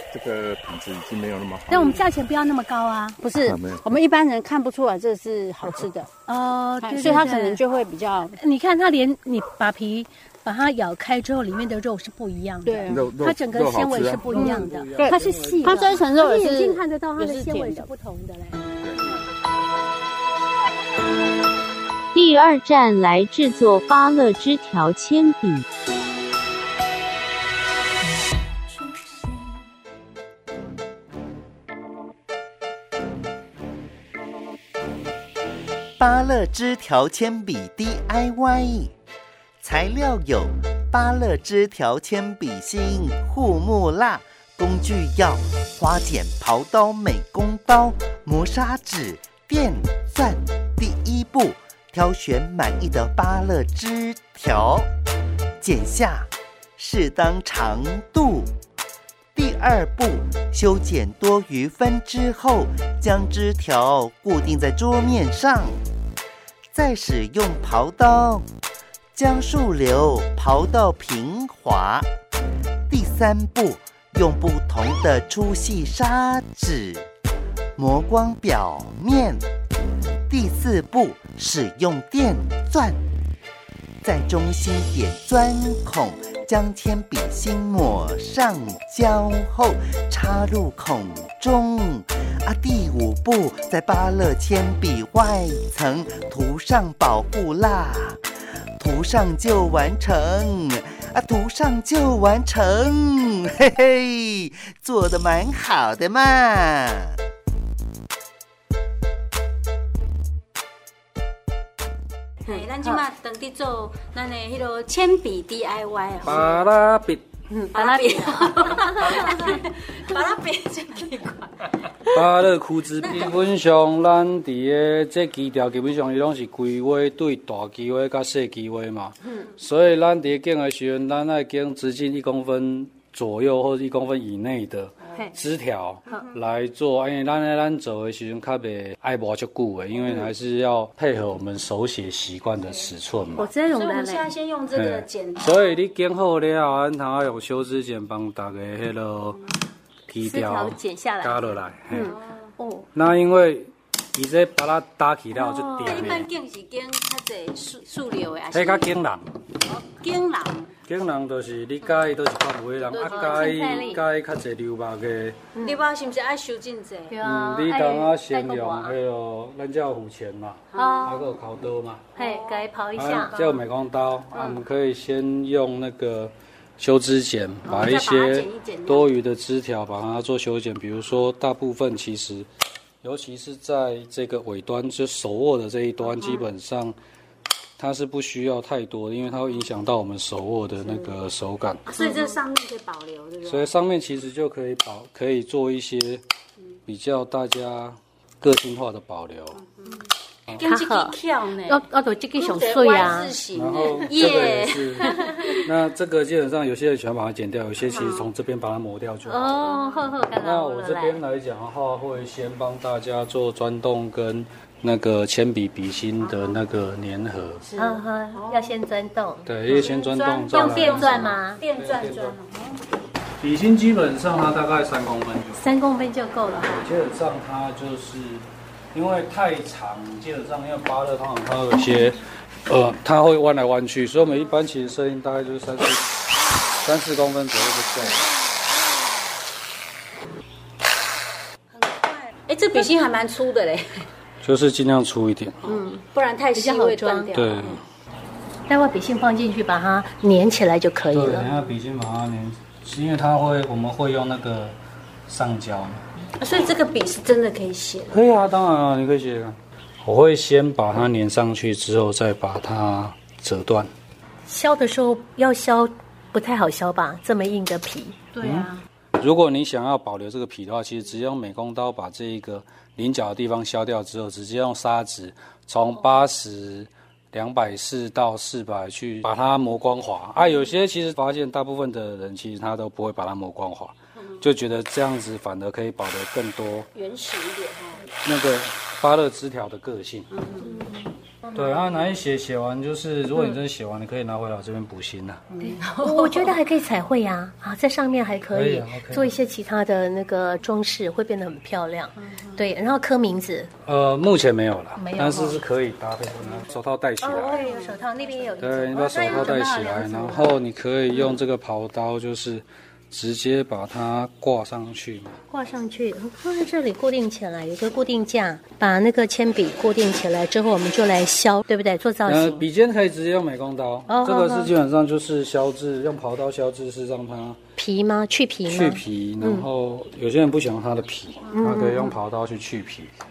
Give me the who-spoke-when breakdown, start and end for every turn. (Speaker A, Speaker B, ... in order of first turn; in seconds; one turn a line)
Speaker A: 0.1-1.9
Speaker B: 1.7-3.2
Speaker C: 3.2-6.1
Speaker A: 3.3-3.8
Speaker B: 6.2-7.6
Speaker C: 6.8-8.4
Speaker B: 8.3-18.6
Speaker C: 12.6-13.1
Speaker A: 12.9-14.2
Speaker D: 14.2-16.1
Speaker C: 14.4-17.9
Speaker E: 22.1-25.6
Speaker F: 36.0-38.9
Speaker F: 39.6-54.9
Speaker F: 55.6-58.5
Speaker F: 59.3-65.8
Speaker F: 66.7-68.5
Speaker F: 69.1-72.1
Speaker F: 72.9-77.1
Speaker F: 77.8-79.4
Speaker F: 80.3-83.0
Speaker F: 84.0-98.2
Speaker F: 98.8-107.2
Speaker C: 112.5-116.6
Speaker B: 112.5-113.0
Speaker D: 116.2-117.2
Speaker B: 117.5-119.3
Speaker C: 117.7-121.7
Speaker D: 122.1-143.5
Speaker C: 123.0-123.4
Speaker B: 143.4-144.3
Speaker C: 143.6-145.7
Speaker D: 144.7-149.4
Speaker D: 150.1-152.1
Speaker B: 150.2-151.7
Speaker C: 151.9-152.2
Speaker D: 152.9-156.3
Speaker B: 155.5-156.0
Speaker C: 155.8-158.9
Speaker D: 158.5-159.3
Speaker C: 159.7-160.7
Speaker D: 160.8-165.5
Speaker C: 162.9-163.6
Speaker B: 163.1-164.0
Speaker B: 165.5-165.8
Speaker C: 165.6-167.2
Speaker B: 167.1-168.9
Speaker D: 167.2-172.1
Speaker C: 170.7-171.1
Speaker B: 170.7-171.3
Speaker B: 172.1-173.4
Speaker C: 172.2-172.6
Speaker D: 172.9-182.5
Speaker C: 173.2-173.6
Speaker C: 177.7-179.1
Speaker D: 183.0-186.9
Speaker C: 186.1-186.4
Speaker D: 187.8-192.0
Speaker C: 190.8-191.1
Speaker C: 191.8-193.7
Speaker B: 192.0-192.3
Speaker D: 193.4-196.2
Speaker D: 196.9-199.6
Speaker C: 200.6-201.8
Speaker B: 200.6-203.4
Speaker C: 202.4-205.5
Speaker D: 202.9-209.7
Speaker B: 204.0-204.4
Speaker B: 205.0-205.6
Speaker C: 207.9-208.3
Speaker B: 209.2-211.2
Speaker D: 210.4-217.6
Speaker C: 216.2-216.6
Speaker C: 217.6-218.8
Speaker B: 217.8-219.7
Speaker D: 219.4-222.4
Speaker C: 219.7-222.8
Speaker B: 220.5-221.6
Speaker D: 223.4-225.6
Speaker B: 225.5-226.8
Speaker D: 226.6-236.2
Speaker D: 236.8-238.3
Speaker C: 241.8-244.1
Speaker D: 244.4-245.6
Speaker C: 245.6-247.6
Speaker B: 245.7-247.7
Speaker D: 247.3-247.8
Speaker B: 248.7-251.6
Speaker D: 251.1-254.8
Speaker D: 255.3-256.1
Speaker C: 256.4-258.2
Speaker D: 258.1-263.9
Speaker B: 264.4-268.5
Speaker D: 268.4-286.9
Speaker C: 286.9-288.1
Speaker D: 288.2-290.3
Speaker C: 290.4-290.6
Speaker B: 290.6-291.7
Speaker D: 291.5-295.5
Speaker C: 295.5-296.4
Speaker B: 295.6-303.7
Speaker D: 298.5-299.4
Speaker D: 303.8-307.6
Speaker B: 305.0-305.6
Speaker B: 307.2-310.5
Speaker D: 308.6-315.4
Speaker B: 315.5-322.6
Speaker D: 322.2-327.6
Speaker B: 324.1-324.7
Speaker B: 327.8-329.7
Speaker D: 328.6-333.1
Speaker B: 331.5-332.1